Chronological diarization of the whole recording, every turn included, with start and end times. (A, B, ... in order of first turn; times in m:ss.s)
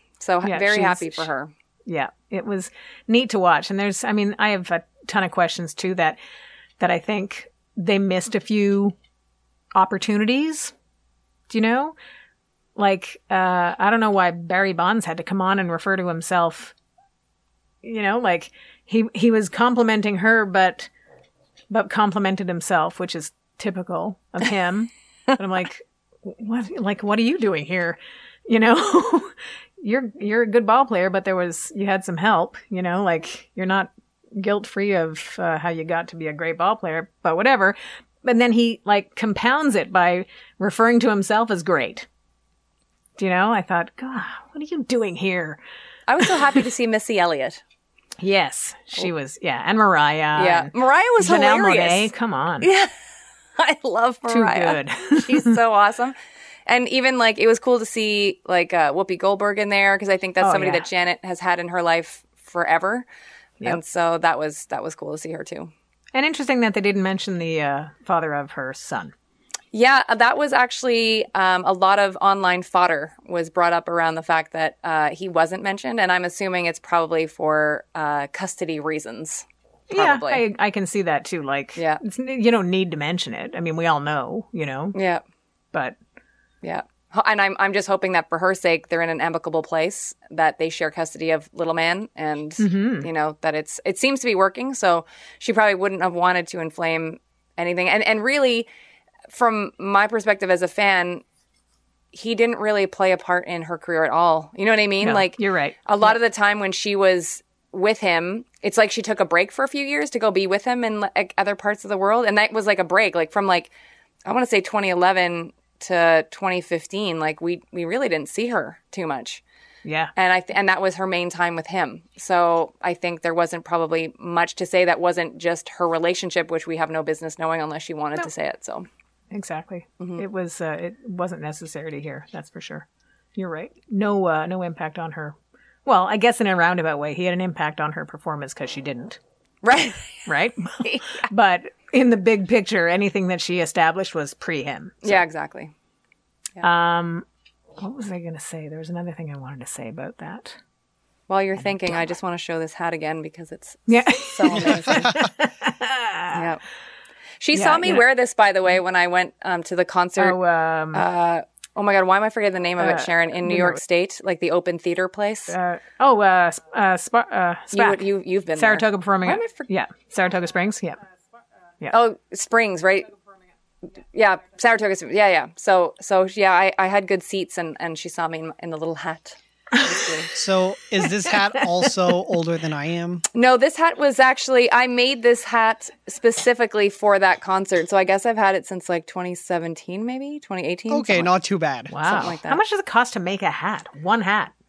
0:00.2-0:01.5 A
0:00.4-0:01.3 B
0:01.9-0:06.2 B
0:06.8-0:09.0 B
0:09.8-0:10.7 B
0:11.5-0:12.0 B
0:12.8-0:16.7 B
0:17.8-0:20.9 B
0:21.7-0:42.1 B
0:43.2-0:45.6 B
0:46.1-0:47.6 A
0:46.2-0:46.5 B
0:48.2-0:52.7 B
0:50.4-0:52.1 A
0:52.6-0:52.9 A
0:53.6-0:56.2 A
0:54.3-0:55.6 B
0:56.7-1:03.1 A
1:00.4-1:00.9 B
1:03.6-1:05.7 A
1:06.1-1:09.1 B
1:09.7-1:20.4 A
1:19.9-1:25.0 B
1:24.9-1:25.2 A
1:26.6-1:38.7 A
1:32.6-1:33.1 B
1:39.3-1:41.2 A
1:42.1-1:53.7 A
1:45.0-1:46.2 B
1:54.3-1:59.4 A
1:59.8-2:00.1 B
2:00.2-2:08.9 A
2:09.3-2:19.2 B
2:19.6-2:20.3 A
2:20.3-2:25.2 B
2:20.8-2:21.3 A
2:25.0-2:25.7 A
2:26.6-2:27.2 B
2:27.8-2:30.6 B
2:31.3-2:35.1 A
2:31.6-2:32.1 B
2:33.9-2:36.4 B
2:36.3-2:36.6 A
2:37.4-2:40.4 A
2:37.5-2:38.1 B
2:40.2-2:41.0 B
2:40.9-2:45.6 A
2:42.8-2:43.8 B
2:45.5-2:51.0 B
2:47.7-2:49.7 A
2:51.9-2:53.1 A
2:54.1-3:00.3 A
2:59.8-3:00.1 B
3:00.3-3:03.3 C
3:01.3-3:01.9 B
3:03.3-3:11.3 A
3:10.9-3:11.9 C
3:11.9-3:14.5 B
3:12.0-3:12.6 A